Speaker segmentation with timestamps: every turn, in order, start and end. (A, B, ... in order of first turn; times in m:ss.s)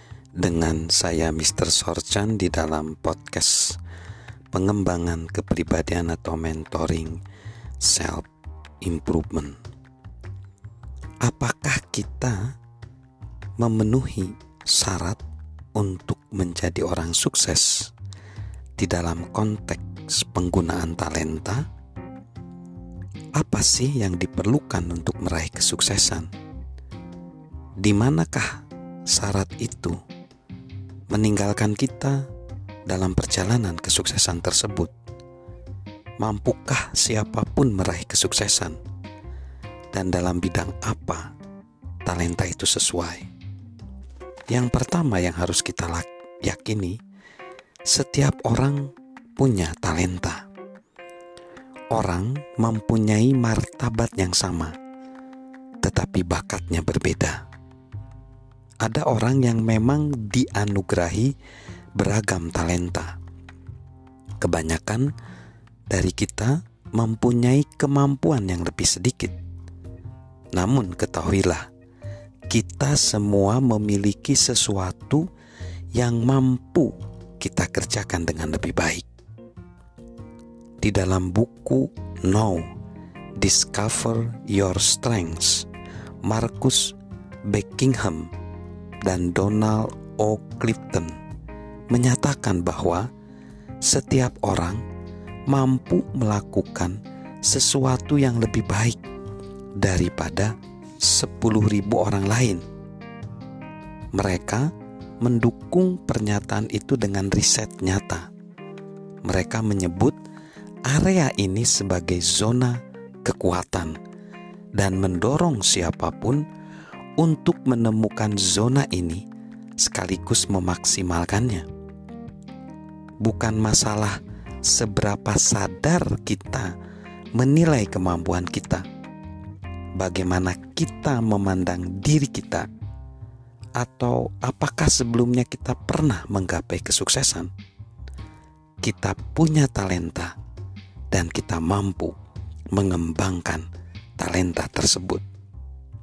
0:00.4-0:03.8 A
0:04.5-0:07.2 A
0:07.8-0:08.3 A
0:08.8-0:09.6 A
0:11.2-0:12.5 A
0:13.6-0:15.2 A
0:15.7-0:17.9 A
0:18.8-0:21.7 A
0:23.4-0:26.3 A
0:27.8-0:30.0 A
0:31.1-0:32.3 A
0:32.9-0:34.9 A
0:36.2-0:38.8 A
0:39.9-0:41.3 A
0:42.0-0:43.3 A
0:44.5-0:47.0 A
0:47.9-0:50.4 A
0:51.9-0:54.7 A
0:55.8-0:57.4 A
0:58.8-1:01.3 A
1:02.0-1:03.2 A
1:04.4-1:05.1 A
1:05.9-1:09.4 A
1:10.6-1:11.7 A
1:12.5-1:15.3 A
1:15.9-1:19.0 A
1:20.8-1:22.7 A
1:23.4-1:25.7 A
1:26.2-1:27.0 A
1:27.5-1:28.3 A
1:29.0-1:31.1 A
1:31.9-1:33.1 A
1:33.8-1:34.8 A
1:35.5-1:39.0 A
1:39.8-1:42.6 A
1:44.1-1:44.7 A
1:45.2-1:48.3 A
1:49.2-1:50.2 A
1:50.9-1:54.0 A
1:54.8-1:56.4 A
1:57.2-1:59.2 A
1:59.8-2:01.6 A
2:03.2-2:06.7 A
2:07.3-2:08.9 A
2:10.0-2:12.7 A
2:13.8-2:17.5 A
2:18.8-2:20.3 A
2:21.1-2:22.2 A
2:22.7-2:23.7 A
2:24.2-2:25.2 A